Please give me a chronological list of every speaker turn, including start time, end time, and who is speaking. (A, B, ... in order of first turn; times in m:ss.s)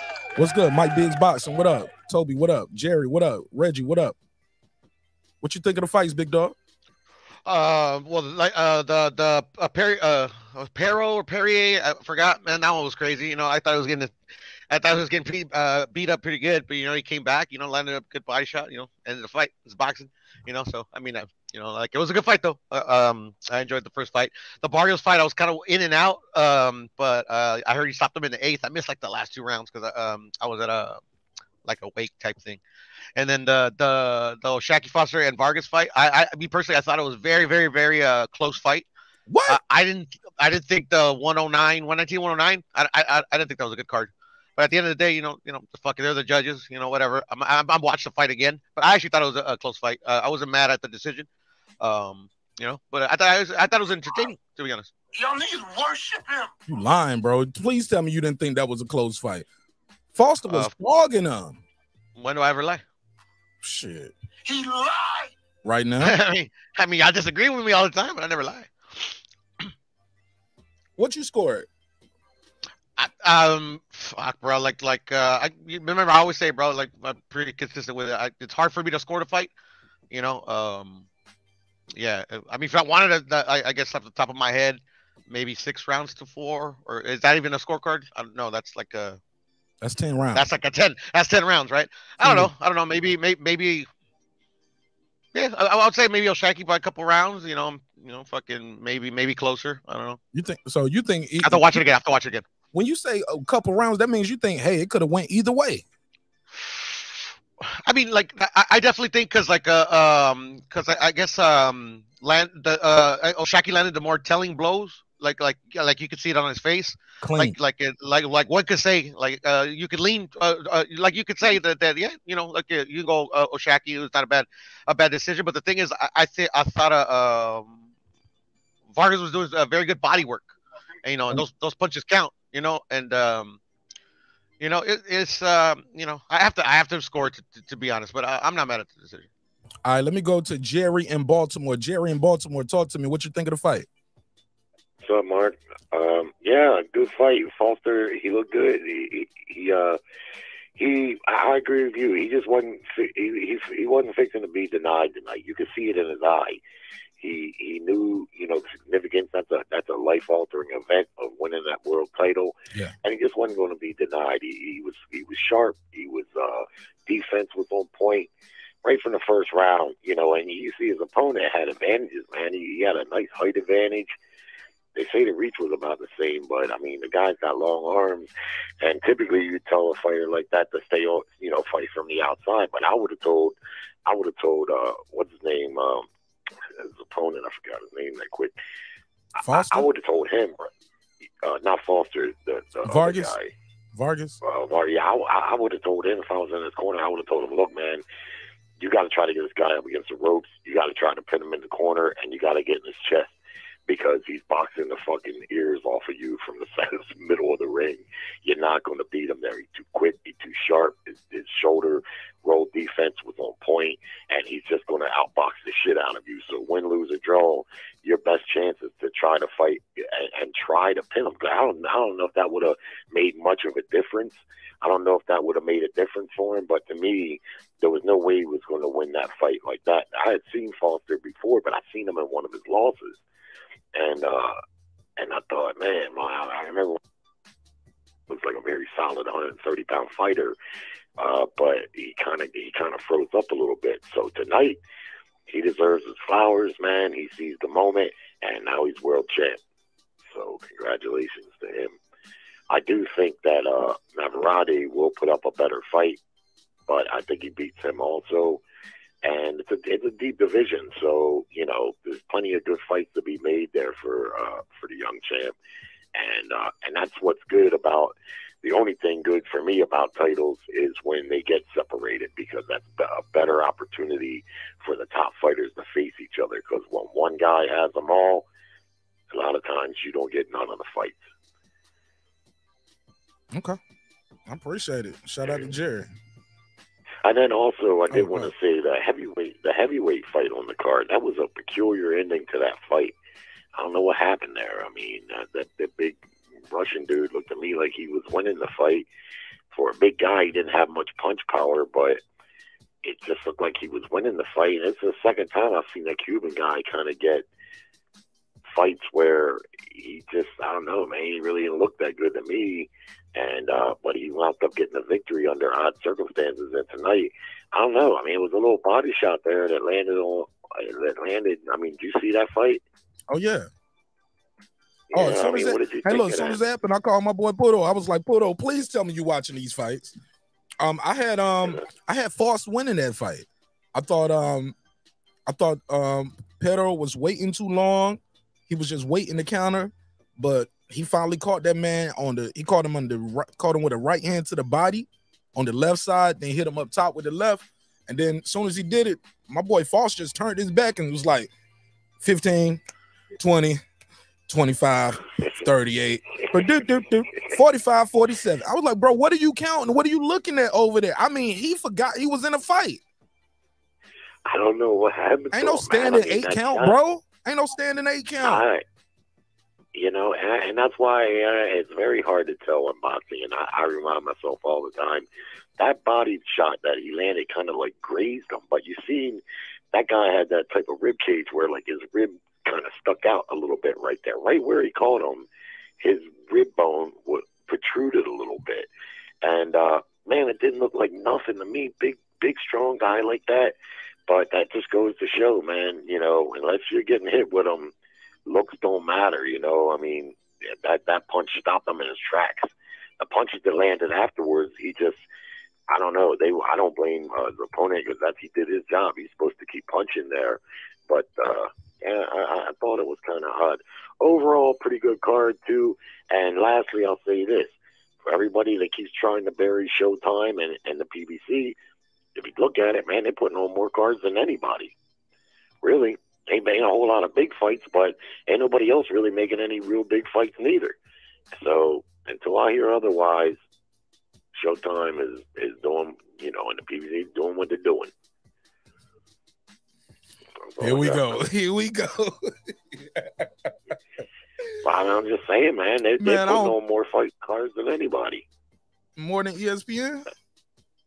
0:00.4-0:04.2 A
0:05.4-0:06.5 A
0:07.4-0:14.1 B
0:14.7-0:31.0 B
0:31.6-0:32.6 B
0:33.2-0:38.9 B
0:39.3-0:39.6 A
0:39.5-0:51.3 B
0:51.8-0:54.9 B
0:55.1-0:56.5 C
0:56.7-0:59.4 A
1:00.1-1:01.6 A
1:02.2-1:02.8 B
1:03.6-1:04.1 A
1:04.4-1:05.3 C
1:05.6-1:06.2 A
1:06.0-1:09.2 B
1:11.0-1:11.7 A
1:13.0-1:19.5 B
1:20.1-1:21.0 B
1:22.0-1:29.2 B
1:29.8-1:30.5 A
1:30.3-1:33.9 B
1:32.2-1:32.5 A
1:35.3-1:40.2 B
1:40.3-1:41.8 A
1:41.4-1:42.4 B
1:42.7-1:45.8 A
1:46.5-2:07.8 B
1:57.2-1:57.6 A
2:08.9-2:10.5 B
2:11.0-2:13.6 B
2:14.6-2:19.3 B
2:19.8-2:23.9 A
2:25.0-2:30.0 D
2:30.8-2:36.6 D
2:37.2-2:48.3 D
2:48.8-2:54.1 D
2:54.9-2:58.3 D
2:58.8-3:06.1 D
3:06.8-3:08.5 D
3:09.4-3:09.9 A
3:09.5-3:10.7 D
3:11.4-3:13.5 D
3:12.8-3:13.4 A
3:13.9-3:14.4 A
3:14.4-3:18.0 D
3:18.8-3:23.3 D
3:23.9-3:53.2 D
3:53.9-3:54.5 D
3:55.2-3:57.0 D
3:58.3-4:00.5 D
4:01.2-4:04.8 D
4:05.5-4:09.6 D
4:10.3-4:12.0 D
4:12.7-4:16.2 D
4:16.9-4:18.6 D
4:19.2-4:25.5 D
4:26.2-4:38.4 D
4:39.3-4:41.3 D
4:43.5-4:43.8 A
4:44.5-4:46.1 A
4:47.2-4:53.2 D
4:48.1-4:48.5 A
4:53.8-4:59.1 D
4:59.7-5:02.2 D
5:03.0-5:07.4 D
5:08.7-5:22.8 D
5:23.3-5:23.7 A
5:25.1-5:26.6 D
5:25.1-5:30.1 A
5:30.8-5:34.8 A
5:35.5-5:51.5 A
5:52.2-5:52.8 A
5:53.4-5:53.8 A
5:54.5-6:03.0 A
6:04.5-6:06.9 D
6:05.5-6:08.6 A
6:08.4-6:08.8 D
6:09.9-6:15.3 D
6:15.8-6:19.4 D
6:19.9-6:25.5 D
6:26.0-6:28.9 D
6:29.4-6:33.7 D
6:34.3-6:37.9 D
6:38.5-6:45.2 D
6:45.9-7:01.8 D
7:02.4-7:04.9 D
7:05.8-7:11.0 D
7:11.5-7:13.6 D
7:14.5-7:18.1 D
7:20.6-7:21.4 D
7:20.8-7:22.4 A
7:24.8-7:28.4 D
7:26.2-7:26.7 A
7:29.2-7:30.2 A